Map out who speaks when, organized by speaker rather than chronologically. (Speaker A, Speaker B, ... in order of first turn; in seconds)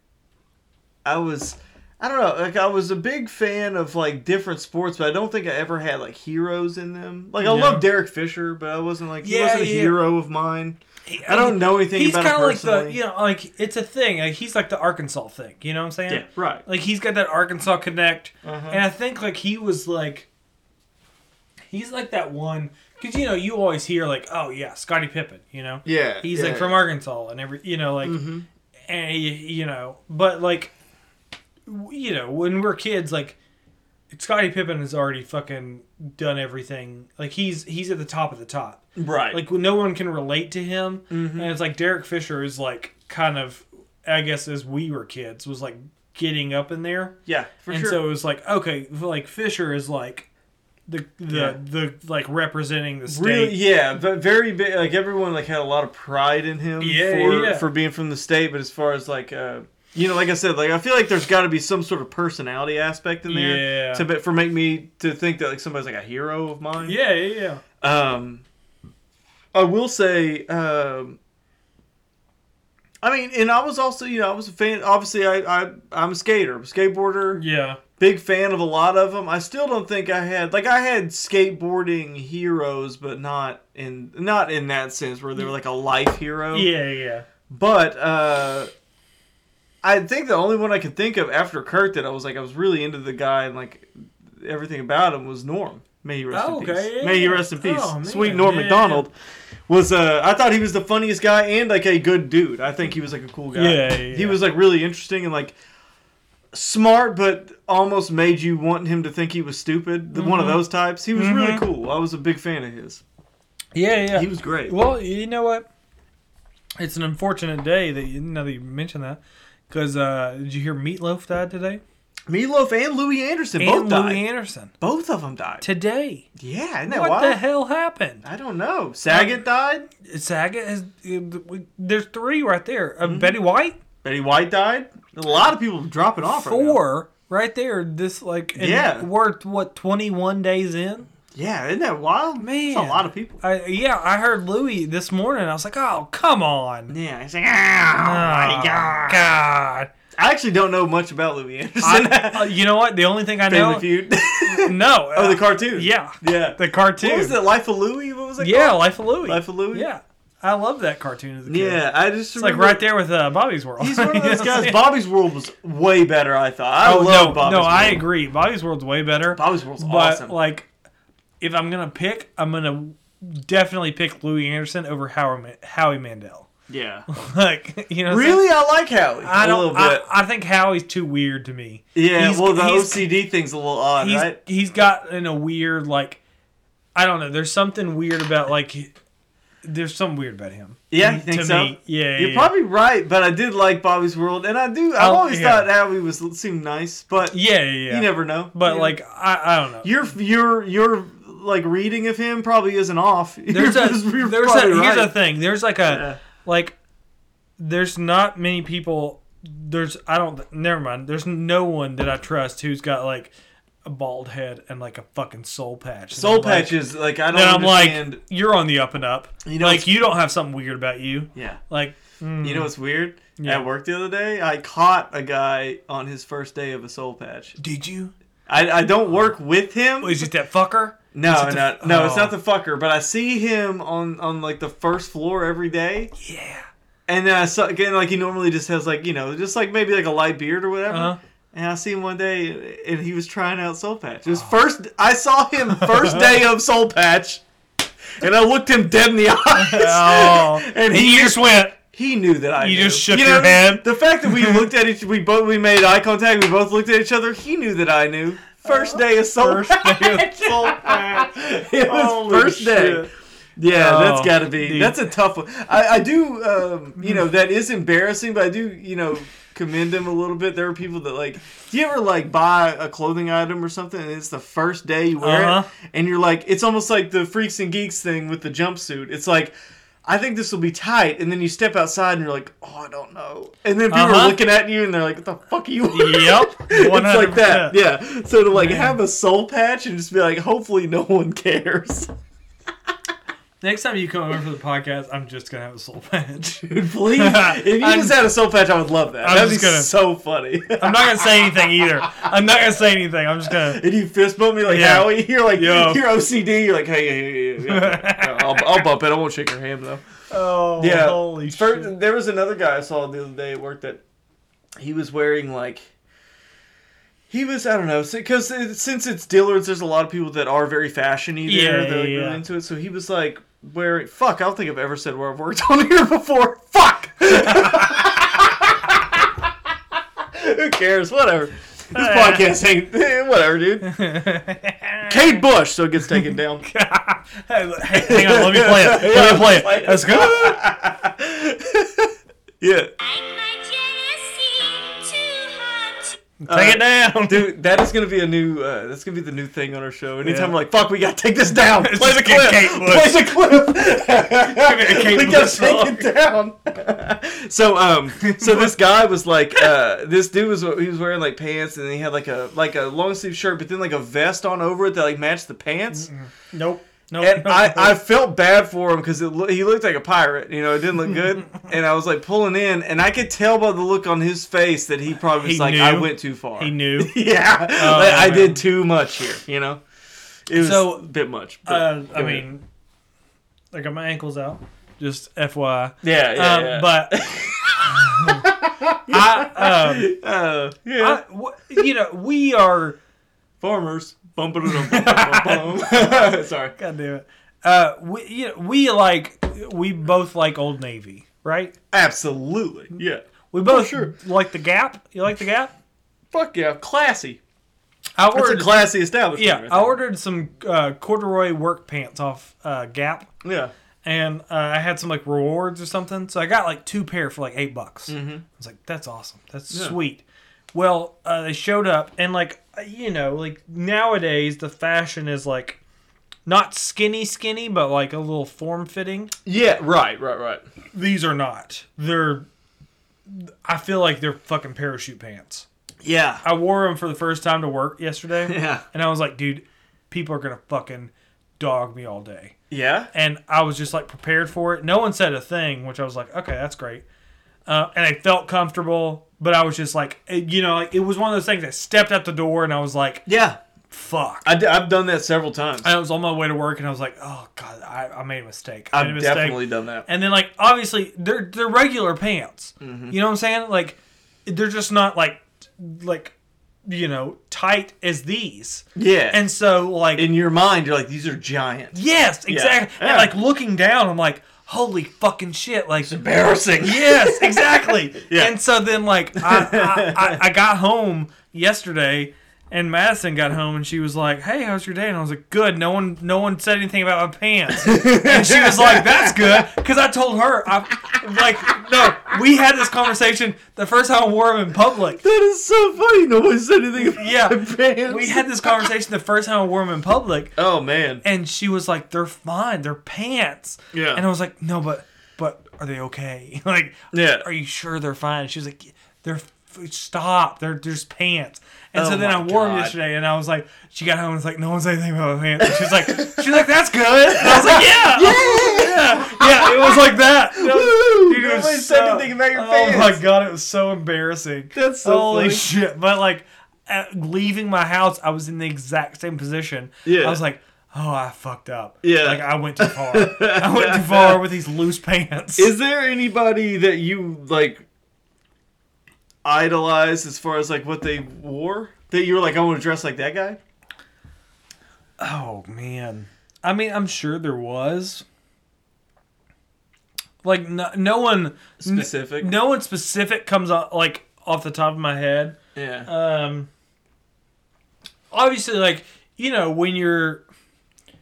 Speaker A: 1.1-13.0, 16.1-16.6, 18.4-18.8, 25.9-26.8, 28.0-28.5, 39.0-39.4, 41.1-41.5, 47.3-48.0, 51.3-51.6, 53.1-67.0, 67.8-68.4, 69.5-71.2, 73.0-77.4, 78.0-86.7, 87.5-88.7, 89.8-99.1, 99.7-105.6, 106.5-113.0, 114.1-114.8, 122.3-124.2, 124.8-125.6, 126.4-127.4, 128.2-129.9, 133.0-133.4, 134.0-136.8, 138.6-139.1, 141.3-143.4, 146.9-149.3, 150.2-152.6, 153.5-159.9, 161.5-162.8, 163.8-168.0, 169.3-170.4, 176.7-177.1, 178.1-180.1, 181.9-184.4, 190.9-199.0, 199.8-205.2, 205.9-206.2, 216.1-218.2, 219.4-219.9, 221.3-221.6, 222.4-227.6, 228.5-230.3, 231.1-236.1, 237.1-247.4, 248.2-279.5, 280.1-292.1, 296.6-302.3, 303.5-310.0, 310.8-314.0, 314.8-315.9, 317.3-329.3, 330.3-333.9, 335.1-336.6, 337.9-342.1, 342.6-342.9, 346.5-366.1, 367.2-379.8, 380.5-382.4, 386.0-391.2, 393.6-396.8, 401.9-404.1, 406.3-407.4, 408.3-410.0, 413.4-413.7, 418.1-418.4, 419.7-420.0, 429.5-430.6, 436.0-436.4, 438.5-438.8, 442.7-443.1, 453.3-453.6, 454.4-455.9, 458.9-460.1, 462.8-463.1, 469.0-469.4, 470.2-473.3, 476.1-478.5, 479.4-480.4, 487.8-489.7, 495.2-498.9, 500.6-501.2, 503.9-504.2, 507.1-507.5, 511.9-513.0, 515.6-516.6, 517.3-523.2, 524.7-525.7, 530.0-530.4, 532.0-534.4, 535.6-537.9, 539.4-543.6, 551.8-552.5, 555.8-556.1
Speaker B: 7.4-7.9, 9.2-10.0, 11.1-20.3, 21.7-28.2, 28.9-30.7, 31.7-33.4, 34.1-47.2, 47.7-50.3, 50.9-53.6, 56.8-57.7, 63.3-64.0, 66.8-67.6, 77.3-77.8, 86.5-87.3, 96.3-99.1, 103.5-104.4, 110.1-110.6, 111.1-111.7, 113.8-115.7, 116.8-121.8, 123.6-124.7, 125.6-126.3, 126.9-128.2, 129.1-129.4, 130.0-133.8, 136.2-141.1, 142.4-146.9, 148.0-149.9, 151.8-153.9, 154.4-157.4, 158.4-161.8, 162.3-164.8, 166.8-170.7, 171.4-176.5, 177.1-178.4, 179.2-183.1, 184.0-186.2, 186.9-188.9, 189.6-192.5, 195.0-195.7, 197.3-199.9, 203.5-206.8, 207.6-213.3, 213.8-222.7, 223.4-223.7, 227.6-228.1, 230.0-232.4, 236.2-236.7, 240.9-241.2, 245.8-246.2, 249.5-251.8, 252.6-254.7, 258.7-263.1, 263.7-265.0, 275.2-275.7, 283.9-284.4, 285.9-287.8, 288.5-289.0, 293.6-298.2, 299.2-299.9, 300.8-303.8, 304.6-306.0, 307.6-308.8, 310.3-311.9, 321.5-322.4, 327.4-328.0, 331.9-332.5, 333.8-335.4, 336.1-340.6, 346.4-347.5, 350.2-350.6, 351.8-353.3, 354.4-356.1, 358.2-358.8, 365.9-368.0, 375.4-377.2, 377.8-378.6, 380.6-381.1, 381.7-382.6, 383.7-387.2, 387.8-388.5, 389.1-390.1, 391.0-393.0, 394.7-401.7, 403.5-405.7, 408.2-413.3, 414.0-425.8, 426.5-429.3, 430.9-432.5, 433.3-435.7, 436.4-442.6, 443.1-447.1, 447.7-453.3, 453.9-454.5, 455.8-470.3, 471.9-476.2, 476.8-495.2, 497.0-500.6, 501.2-535.7, 545.2-548.2, 550.4-556.7, 558.3-560.4
Speaker C: 343.0-346.2